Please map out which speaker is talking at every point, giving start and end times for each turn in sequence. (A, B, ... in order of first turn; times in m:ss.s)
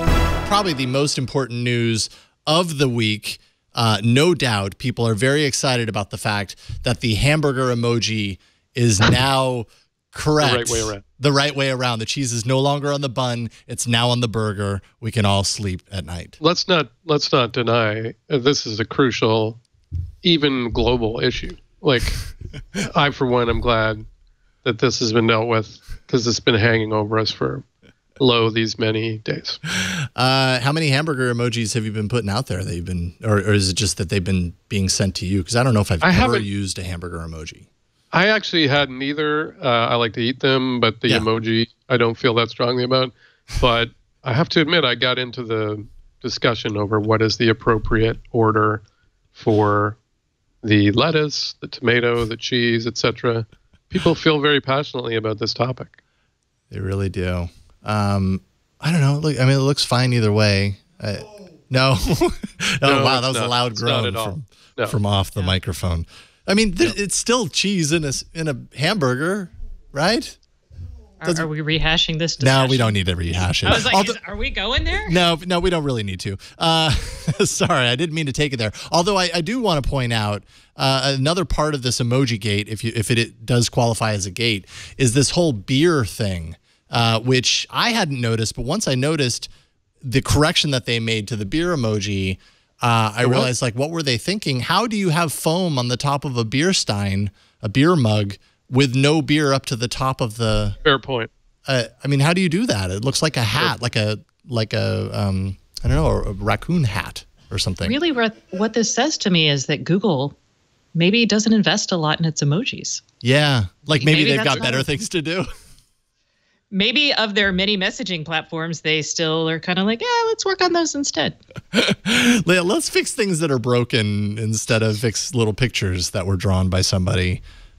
0:00.4-0:16.4 A
0:10.4-0:11.0 B
0:16.4-0:19.6 B
0:20.2-0:24.0 B
0:24.6-0:27.6 B
0:28.2-0:29.6 B
0:29.7-0:37.7 A
0:36.0-0:36.4 B
0:38.1-0:48.8 B
0:49.3-0:50.0 B
0:50.6-0:56.0 B
0:56.7-1:10.4 A
1:02.8-1:05.0 B
1:11.2-1:13.0 C
1:12.4-1:14.2 A
1:13.6-1:15.2 C
1:14.9-1:29.5 A
1:30.0-1:40.8 A
1:33.2-1:33.5 B
1:40.8-1:41.3 B
1:41.7-1:48.0 A
1:47.8-1:50.4 C
1:50.9-1:53.0 C
1:53.2-1:55.4 A
1:54.0-1:54.9 C
1:56.7-2:01.4 C
2:01.7-2:07.4 A